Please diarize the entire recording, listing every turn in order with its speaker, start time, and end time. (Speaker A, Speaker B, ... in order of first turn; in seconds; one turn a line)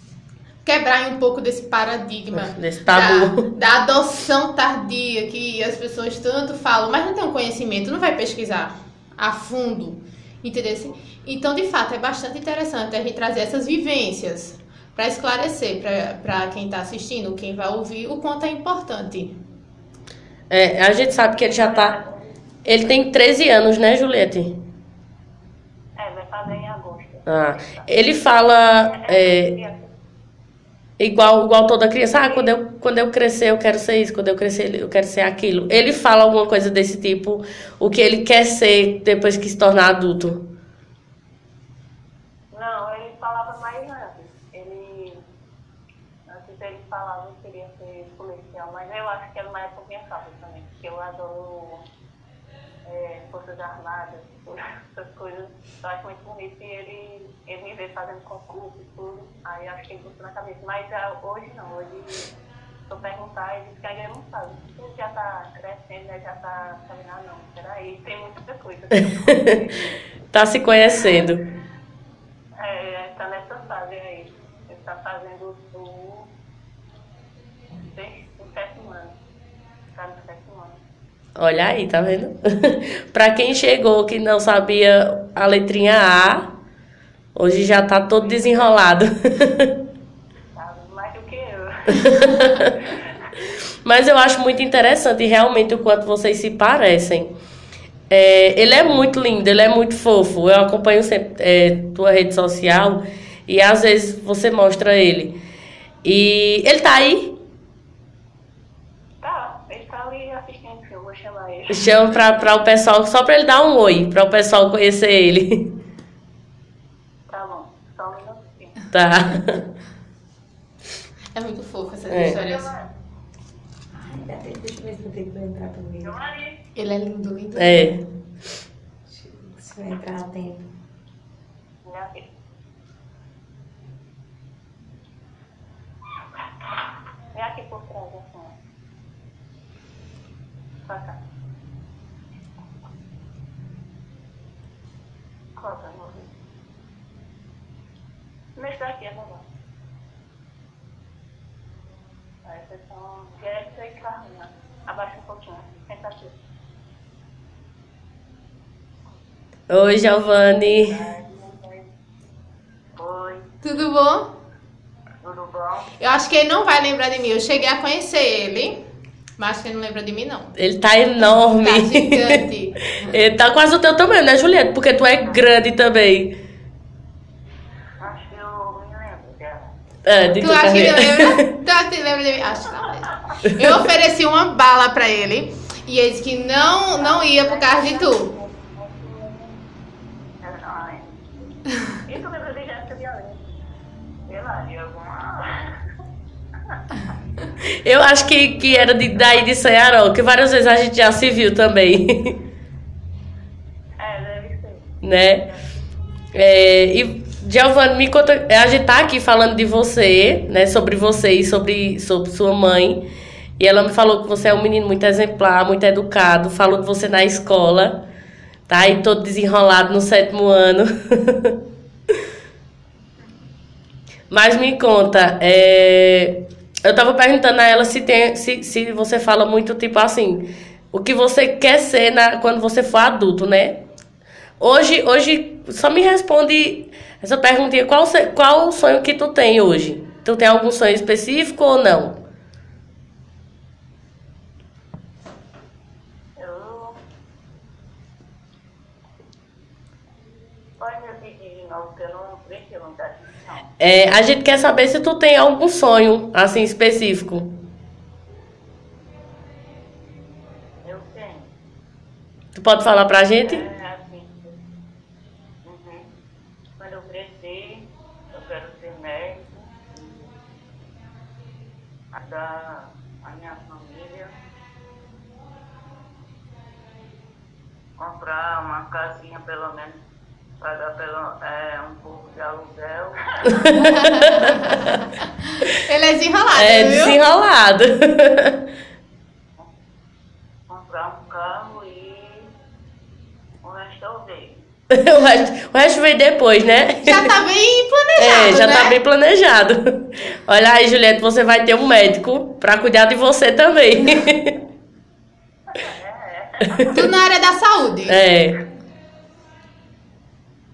Speaker A: 0.6-19.4
Speaker B: 2.3-3.5
Speaker B: 20.5-22.0
Speaker C: 21.4-22.3
Speaker B: 22.6-24.6
Speaker C: 26.0-27.9
Speaker B: 27.3-29.5
Speaker C: 28.8-29.9
Speaker B: 31.0-40.5
Speaker C: 32.2-32.5
Speaker C: 42.5-45.2
Speaker C: 46.3-51.9
Speaker C: 52.9-62.3
Speaker C: 62.9-70.0
Speaker B: 70.3-71.4
Speaker C: 72.6-76.3
Speaker C: 77.9-79.2
Speaker C: 80.0-80.8
Speaker B: 81.4-86.5
Speaker B: 87.3-89.8
Speaker C: 90.5-93.1
Speaker B: 92.0-92.7
Speaker B: 93.8-97.3
Speaker B: 98.1-105.4
Speaker B: 106.0-107.4
Speaker C: 109.2-111.9
Speaker B: 111.7-115.8
Speaker C: 117.3-118.8
Speaker B: 118.9-119.6
Speaker A: 121.3-122.7
Speaker B: 122.1-122.4
Speaker D: 124.0-126.2
Speaker E: 126.0-126.6
Speaker A: 126.8-128.0
Speaker B: 127.5-128.0
Speaker D: 129.1-130.6
Speaker C: 131.8-132.2
Speaker C: 137.3-138.6
Speaker C: 140.8-141.2
Speaker C: 145.6-146.3
Speaker C: 148.6-149.4
Speaker C: 152.4-156.3
Speaker B: 159.7-161.1
Speaker E: 160.7-161.8
Speaker E: 162.9-163.5
Speaker A: 163.6-164.3
Speaker E: 165.2-165.9
Speaker A: 166.0-168.8
Speaker A: 169.4-170.5
Speaker B: 170.6-172.4
Speaker A: 171.6-172.8
Speaker B: 172.9-176.4
Speaker E: 178.0-179.8
Speaker B: 180.1-181.4
Speaker A: 180.4-188.3
Speaker C: 187.0-189.5
Speaker E: 190.4-191.5
Speaker C: 192.1-193.4
Speaker E: 194.3-195.4
Speaker B: 197.8-202.4
Speaker C: 204.0-204.9
Speaker B: 205.0-205.5
Speaker B: 206.3-213.0
Speaker B: 213.6-218.0
Speaker B: 218.7-221.6
Speaker B: 224.3-233.8
Speaker B: 234.6-242.2
Speaker E: 246.4-247.0
Speaker E: 250.8-253.7
Speaker B: 253.8-257.5
Speaker E: 260.8-261.5
Speaker B: 262.6-263.6
Speaker E: 263.4-264.6
Speaker E: 265.6-266.1
Speaker E: 266.8-270.3
Speaker E: 272.1-274.3
Speaker E: 278.0-280.0
Speaker E: 280.6-284.5
Speaker B: 283.7-285.0
Speaker A: 283.8-284.9
Speaker A: 285.7-287.2
Speaker B: 286.6-288.6
Speaker E: 290.7-292.5
Speaker E: 293.6-294.6
Speaker B: 294.9-297.3
Speaker A: 297.0-299.0
Speaker B: 298.2-304.6
Speaker C: 305.7-307.1
Speaker A: 306.9-308.2
Speaker B: 308.1-308.6